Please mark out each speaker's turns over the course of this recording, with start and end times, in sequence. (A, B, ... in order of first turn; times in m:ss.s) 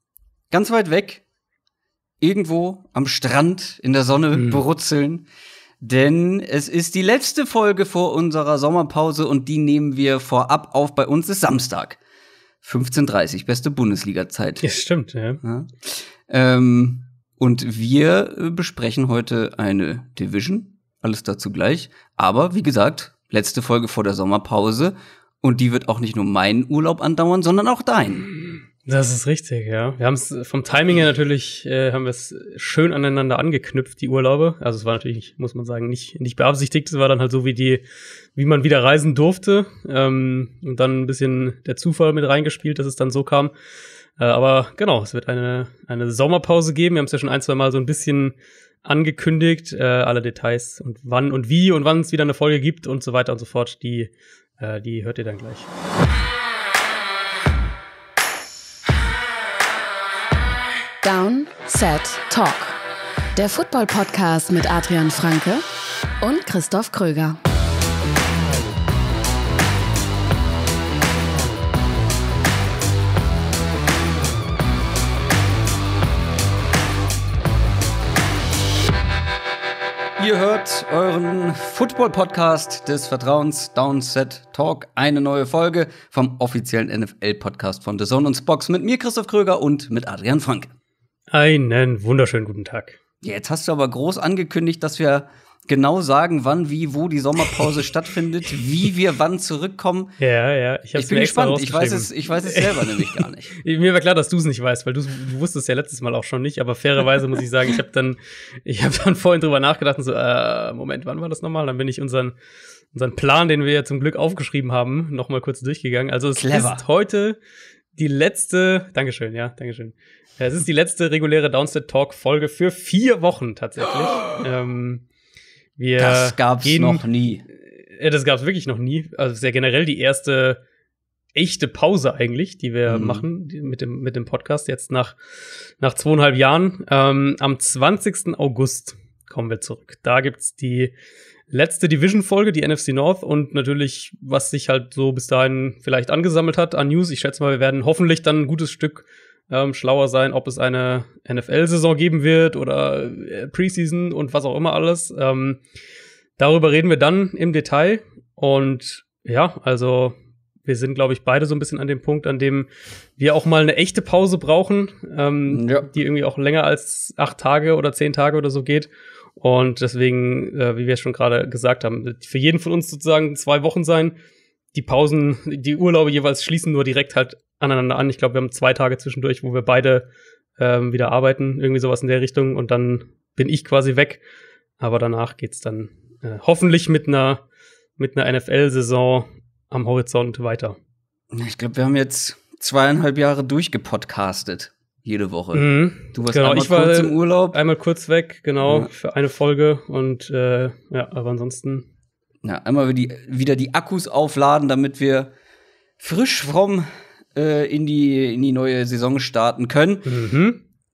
0:00.5-0:01.2 A
0:02.2-0:05.2 A
0:05.8-0:12.0 A
0:12.6-0:14.6 A
0:14.6-0:15.4 B
0:15.4-0:28.3 A
0:28.8-0:37.8 B
0:38.4-0:43.5 B
0:44.2-0:55.7 B
1:01.0-1:02.8 C
1:03.3-1:05.6 C
1:06.2-1:07.4 C
1:20.2-1:30.7 A
1:31.3-1:33.0 B
1:33.2-1:40.1 A
1:40.2-1:52.3 B
1:41.0-1:43.5 A
1:52.9-1:57.4 B
1:56.4-1:56.8 A
1:58.0-2:05.0 B
2:05.8-2:07.0 B
2:06.0-2:07.4 A
2:07.8-2:10.6 B
2:11.3-2:15.2 B
2:12.8-2:13.2 A
2:15.8-2:20.9 B
2:21.5-2:35.6 B
2:36.4-2:54.2 B
2:45.5-2:45.9 A
2:54.7-3:00.0 B
3:00.6-3:04.2 B
3:04.8-3:07.4 B
3:08.0-3:10.8 B
3:11.3-3:17.6 A
3:15.5-3:21.8 B
3:18.6-3:18.9 A
3:22.4-3:25.3 A
3:26.0-3:30.1 A
3:30.0-3:30.6 B